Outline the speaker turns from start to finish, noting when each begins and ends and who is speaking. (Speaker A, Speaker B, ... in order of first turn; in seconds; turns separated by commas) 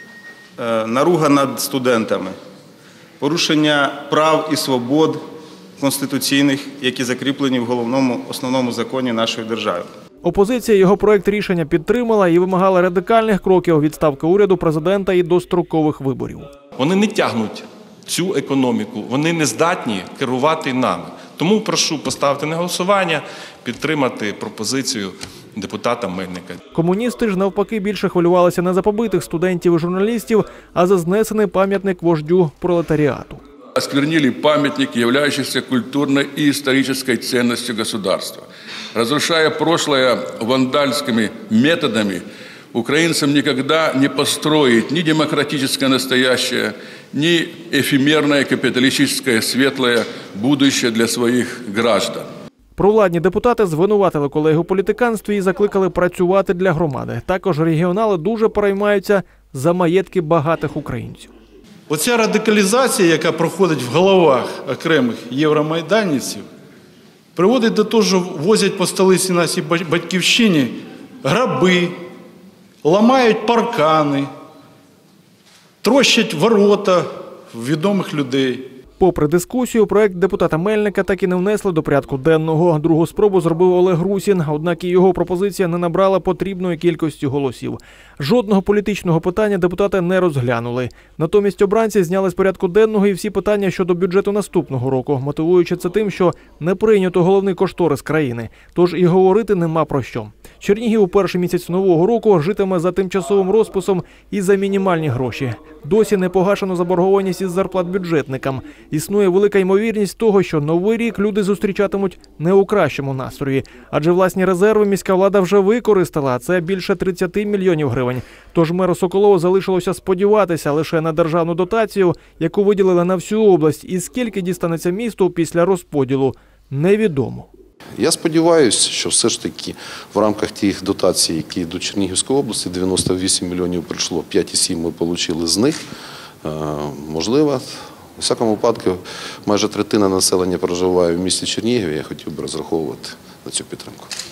Speaker A: 0.6-2.4, Speaker A: 3.2-5.2, Speaker A: 5.8-9.9, Speaker B: 10.2-16.5, Speaker C: 16.8-26.6, Speaker B: 26.7-33.4, Speaker D: 33.8-52.3, Speaker B: 52.8-61.3, Speaker E: 61.9-66.4, Speaker E: 67.4-71.9, Speaker E: 72.8-74.3, Speaker E: 75.8-78.7, Speaker B: 79.0-127.5, Speaker F: 128.0-135.8, Speaker F: 136.4-144.1